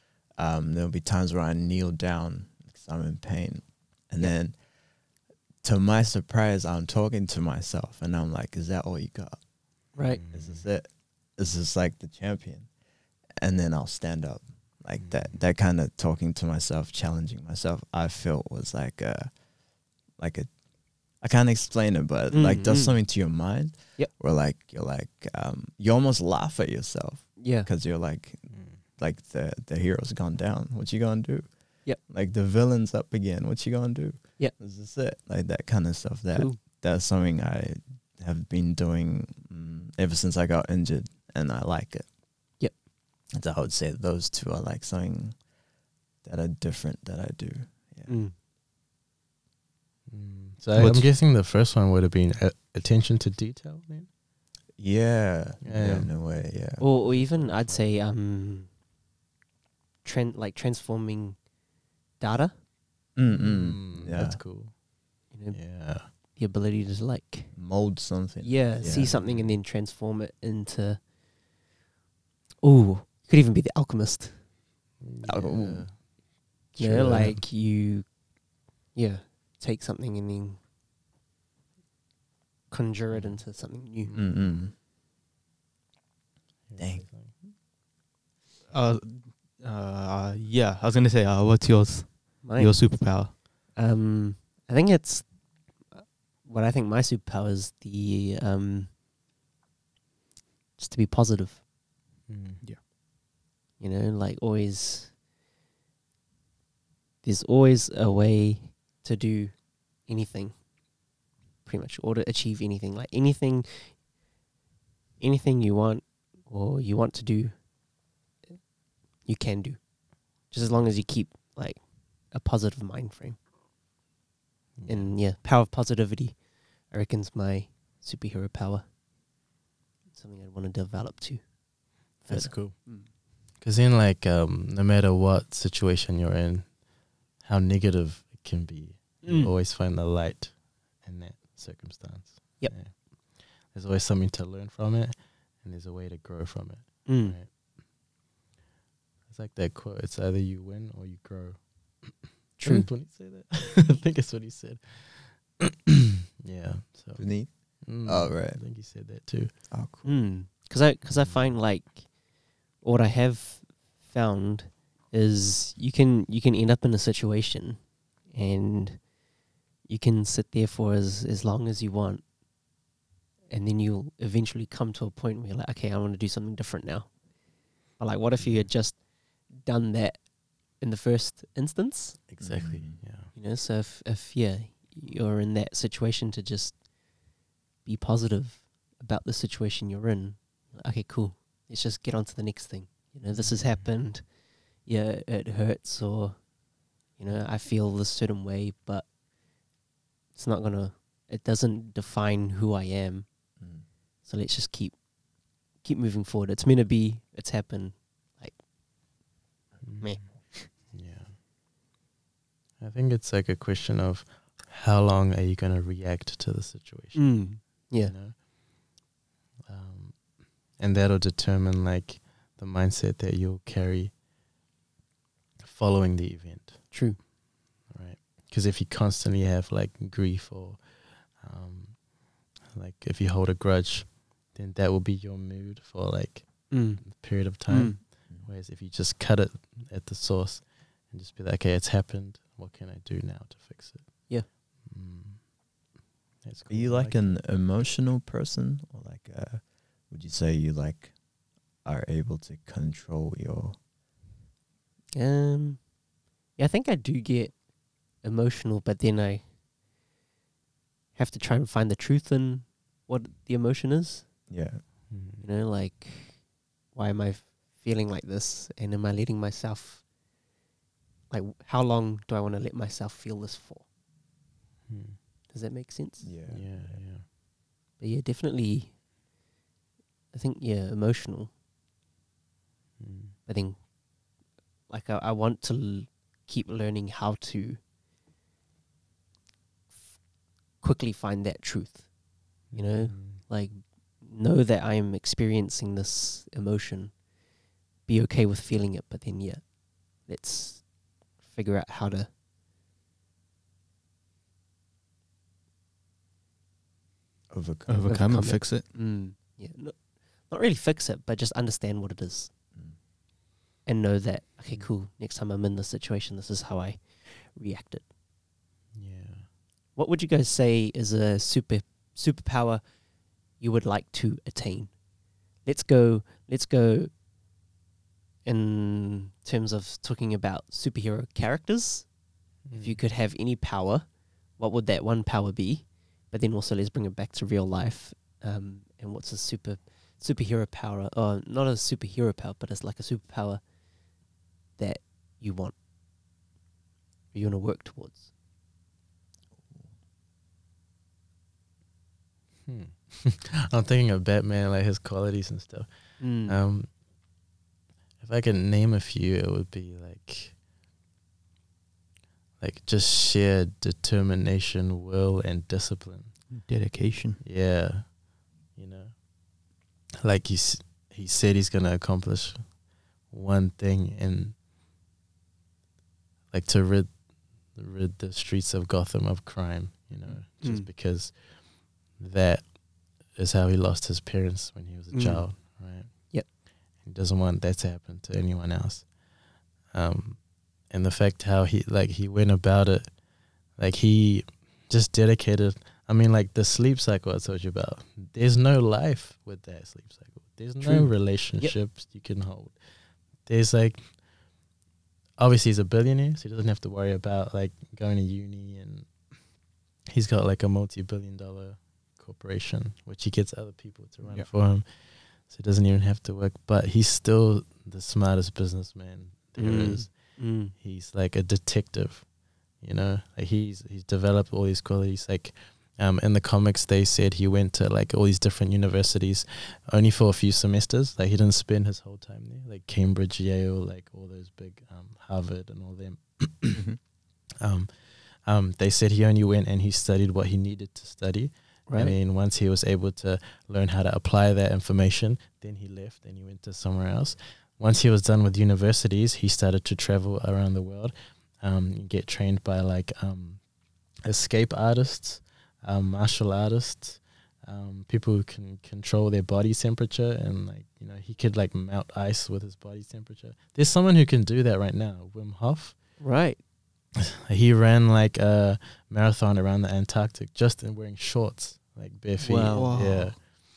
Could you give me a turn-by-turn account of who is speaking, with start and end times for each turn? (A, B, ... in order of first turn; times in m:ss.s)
0:00.3-0:04.6 A
0:05.6-0:09.4 A
0:09.9-0:10.2 B
0:10.1-0:10.6 C
0:10.3-0:12.7 A
0:13.4-0:19.4 A
0:15.0-0:15.3 C
0:20.2-0:20.5 A
0:21.1-0:42.1 A
0:22.3-0:23.0 B
0:27.4-0:27.7 B
0:28.5-0:28.8 C
0:36.3-0:36.6 B
0:43.3-0:45.4 A
0:46.2-0:48.1 A
0:48.1-0:48.3 B
0:50.1-0:54.1 C
0:50.7-0:51.1 D
0:54.8-0:56.9 A
0:55.6-0:56.1 C
0:56.8-0:58.7 B
0:57.0-0:57.9 C
1:00.0-1:01.4 B
1:02.2-1:02.5 B
1:03.1-1:04.4 A
1:03.3-1:04.7 C
1:05.3-1:07.6 B
1:05.5-1:06.1 C
1:07.5-1:09.2 A
1:08.4-1:11.0 B
1:08.8-1:09.6 C
1:12.6-1:14.4 B
1:15.0-1:16.0 C
1:15.2-1:15.9 A
1:16.7-1:17.4 C
1:16.8-1:18.1 B
1:16.8-1:17.3 A
1:18.9-1:20.6 B
1:22.7-1:24.1 B
1:23.1-1:23.4 C
1:24.0-1:24.6 C
1:24.1-1:24.7 A
1:26.7-1:27.3 C
1:26.8-1:27.0 A
1:28.7-1:33.3 D
1:32.4-1:35.3 B
1:35.8-1:38.9 B
1:40.8-1:41.6 B
1:42.3-1:42.6 C
1:43.8-1:45.1 B
1:47.2-1:50.6 B
1:51.6-1:54.0 B
1:55.2-1:57.6 B
1:59.2-2:03.4 B
2:04.8-2:05.2 C
2:04.9-2:08.8 B
2:10.1-2:11.5 B
2:12.2-2:13.1 B
2:12.2-2:12.8 C
2:13.6-2:16.8 C
2:17.4-2:23.0 C
2:19.2-2:19.5 B
2:23.6-2:27.5 C
2:27.0-2:27.4 B
2:29.3-2:37.3 C
2:32.6-2:32.9 B
2:37.2-2:38.6 A
2:37.8-2:39.5 C
2:39.7-2:40.1 A
2:40.0-2:42.2 B
2:42.7-2:49.1 B
2:49.8-2:52.2 B
2:53.5-2:57.2 B
2:57.9-3:02.2 B
2:58.4-2:58.6 A
3:02.3-3:03.3 C
3:02.4-3:03.0 A
3:03.3-3:06.8 B
3:07.8-3:14.3 B
3:13.3-3:13.8 C
3:14.8-3:16.4 B
3:17.1-3:19.1 B
3:20.3-3:23.3 B
3:23.6-3:23.8 A
3:24.2-3:25.0 B
3:25.8-3:28.6 B
3:29.8-3:31.3 C
3:30.0-3:30.7 B
3:32.8-3:38.4 C
3:37.1-3:38.1 B
3:39.6-3:44.1 C
3:45.6-3:47.2 C
3:46.9-3:47.2 B
3:47.9-3:52.0 C
3:52.7-4:05.4 C
3:56.7-3:57.0 B
3:57.7-3:58.0 B
4:06.4-4:07.4 C
4:06.7-4:11.1 A
4:11.8-4:13.8 A
4:15.1-4:15.9 B
4:16.5-4:19.5 B
4:21.1-4:24.4 B
4:24.5-4:24.8 A
4:25.1-4:25.4 C
4:25.4-4:30.0 B
4:31.3-4:33.8 B
4:34.9-4:35.2 C
4:35.5-4:36.3 B
4:36.2-4:37.0 A
4:36.5-4:37.2 C
4:38.0-4:38.9 B
4:40.3-4:41.5 B
4:43.0-4:43.4 C
4:43.4-4:43.9 B
4:44.9-4:47.8 B
4:50.8-4:52.1 B
4:52.6-4:57.2 B
4:52.7-4:53.4 C
4:58.0-5:02.3 B
5:07.5-5:08.0 A
5:07.9-5:08.8 D
5:08.1-5:12.5 B
5:13.8-5:18.0 B
5:18.9-5:19.4 C
5:20.0-5:22.8 B
5:23.6-5:24.9 B
5:25.6-5:27.1 B
5:28.4-5:32.1 B
5:32.6-5:33.0 C
5:32.7-5:43.6 B
5:44.8-5:45.7 B
5:47.3-5:48.3 B
5:52.6-5:56.9 C
5:56.2-5:56.6 B
5:58.2-6:00.6 C
6:02.6-6:06.4 C
6:06.5-6:07.4 D
6:07.4-6:08.2 C
6:08.7-6:09.2 C
6:10.2-6:12.8 C
6:13.3-6:14.6 C
6:16.5-6:29.1 C
6:20.6-6:20.9 B
6:25.1-6:25.6 B
6:29.9-6:42.8 C
6:40.8-6:41.7 B
6:43.4-6:44.2 C
6:45.4-6:49.2 C
6:50.1-7:16.8 C
6:59.6-7:00.7 B
7:16.7-7:17.0 D
7:17.6-7:33.6 C
7:21.9-7:22.1 B
7:34.2-7:46.0 C
7:46.2-7:46.6 B
7:47.2-7:53.5 C
7:52.4-7:52.9 B
7:52.7-7:53.3 D